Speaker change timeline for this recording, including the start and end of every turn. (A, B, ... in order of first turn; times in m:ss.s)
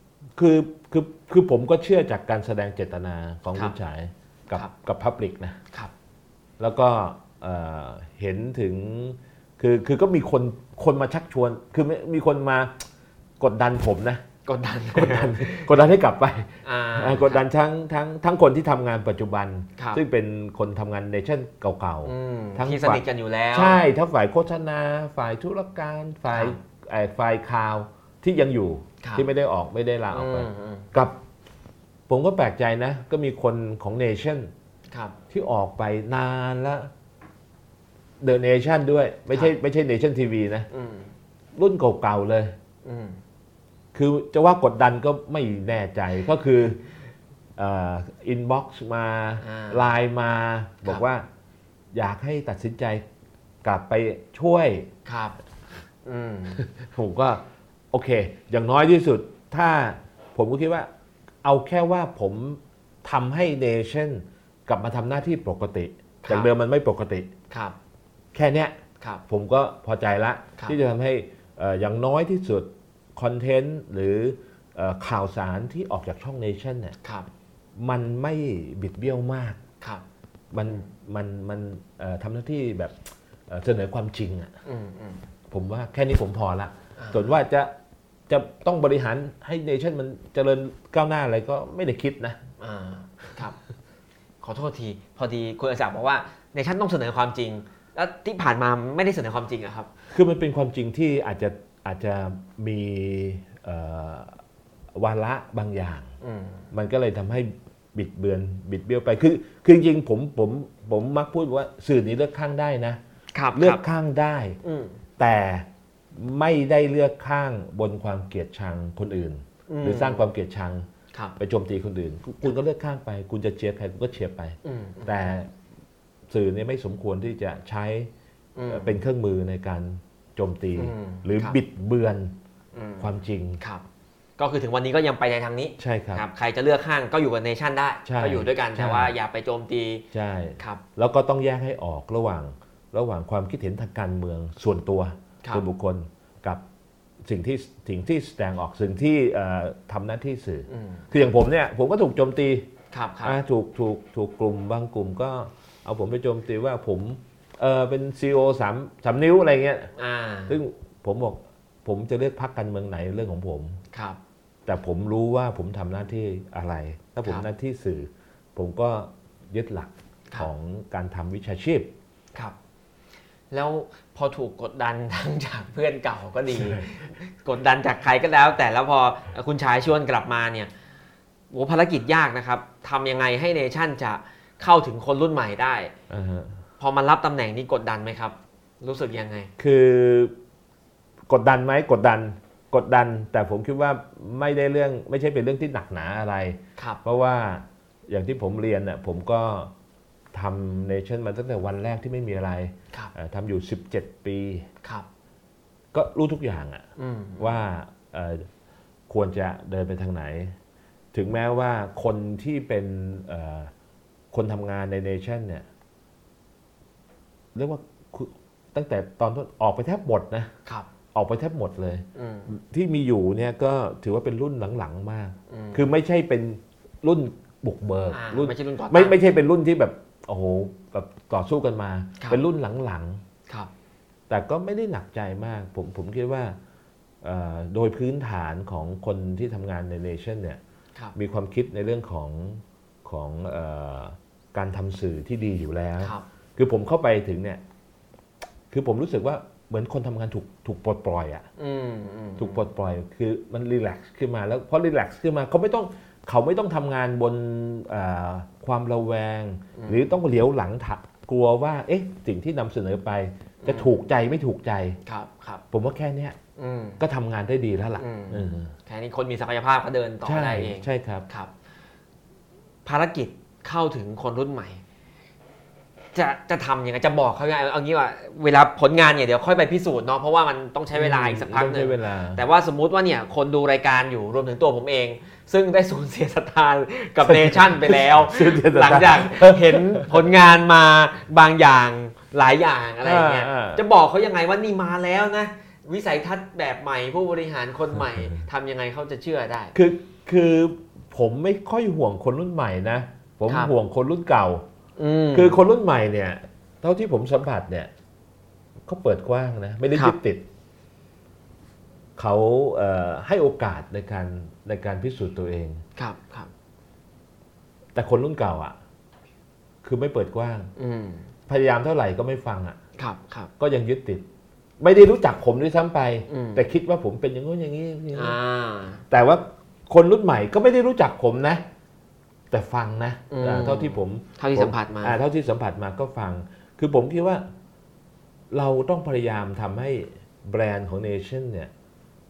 0:00.4-0:05.6 A
0:06.6-0:12.8 A
0:13.4-0:14.2 A
0:14.5-0:15.7 B
0:14.9-0:31.2 A
0:16.6-0:17.4 B
0:22.1-0:23.8 B
0:26.3-0:26.6 B
0:30.1-0:30.9 B
0:32.1-0:34.5 A
0:35.3-0:36.9 A
0:38.2-0:40.7 A
0:39.3-0:39.6 B
0:40.7-0:41.1 B
0:41.6-0:42.6 A
0:42.8-0:43.2 B
0:43.9-0:46.8 A
0:47.6-0:51.3 A
0:49.4-0:49.9 B
0:51.9-0:53.0 A
0:53.6-0:54.9 A
0:55.1-0:55.4 B
0:56.0-0:56.6 B
0:56.6-1:00.9 A
1:01.4-1:07.3 A
1:06.2-1:06.5 B
1:07.5-1:07.8 B
1:08.3-1:17.0 A
1:17.0-1:17.3 B
1:17.8-1:19.6 A
1:20.5-1:22.9 A
1:23.5-1:24.5 A
1:24.6-1:25.2 B
1:25.5-1:27.7 A
1:27.0-1:27.3 B
1:28.3-1:32.4 A
1:32.6-1:33.6 B
1:34.4-1:39.9 B
1:40.1-1:44.4 A
1:45.0-1:46.1 A
1:46.2-1:46.6 B
1:46.7-1:53.0 A
1:53.3-1:53.8 B
1:53.6-1:54.6 A
1:54.6-1:55.0 B
1:55.2-2:05.5 A
1:59.7-2:00.3 B
2:04.6-2:05.3 B
2:06.3-2:08.1 A
2:08.6-2:09.0 B
2:08.7-2:12.4 A
2:10.8-2:11.6 B
2:12.7-2:13.8 B
2:13.0-2:13.6 A
2:14.4-2:20.0 B
2:15.8-2:16.2 A
2:18.0-2:19.1 A
2:20.1-2:26.6 A
2:27.2-2:32.7 A
2:30.7-2:31.1 B
2:32.9-2:33.4 B
2:33.2-2:39.9 A
2:40.0-2:40.6 B
2:40.5-2:43.8 A
2:43.9-2:44.2 B
2:44.7-2:51.9 A
2:53.5-3:00.7 B
2:56.5-2:56.9 A
3:01.5-3:05.9 B
3:06.1-3:06.6 A
3:06.8-3:09.5 B
3:09.6-3:10.3 A
3:11.3-3:19.7 A
3:20.3-3:24.7 A
3:25.9-3:26.9 A
3:27.0-3:27.6 B
3:27.4-3:28.5 A
3:29.1-3:30.6 A
3:31.1-3:33.7 A
3:34.3-3:35.7 A
3:37.6-3:40.5 A
3:41.1-3:53.2 A
3:42.2-3:42.5 B
3:45.5-3:45.8 B
3:48.1-3:49.2 B
3:54.3-3:56.6 A
3:57.2-4:00.6 A
4:01.1-4:07.6 A
4:08.7-4:11.5 A
4:11.6-4:12.6 B
4:12.4-4:25.0 A
4:19.8-4:20.0 B
4:23.6-4:23.9 B
4:25.1-4:25.6 B
4:25.7-4:26.4 A
4:26.6-4:27.0 B
4:27.0-4:28.7 A
4:28.0-4:31.5 B
4:30.2-4:31.3 A
4:32.9-4:34.8 B
4:36.1-4:59.7 B
4:40.9-4:42.4 A
4:47.2-4:50.2 A
4:53.0-4:53.8 A
4:59.8-5:04.6 A
5:05.0-5:05.6 B
5:05.3-5:07.9 A
5:08.9-5:10.4 A
5:12.2-5:15.8 A
5:16.0-5:16.5 B
5:17.9-5:18.8 A
5:19.8-5:20.7 A
5:20.8-5:21.3 B
5:21.5-5:22.8 A
5:23.0-5:23.5 B
5:23.6-5:24.3 A
5:24.8-5:28.4 A
5:26.3-5:26.6 B
5:28.1-5:29.0 B
5:29.1-5:31.6 A
5:32.5-5:37.5 A
5:33.3-5:35.2 B
5:38.5-5:41.7 A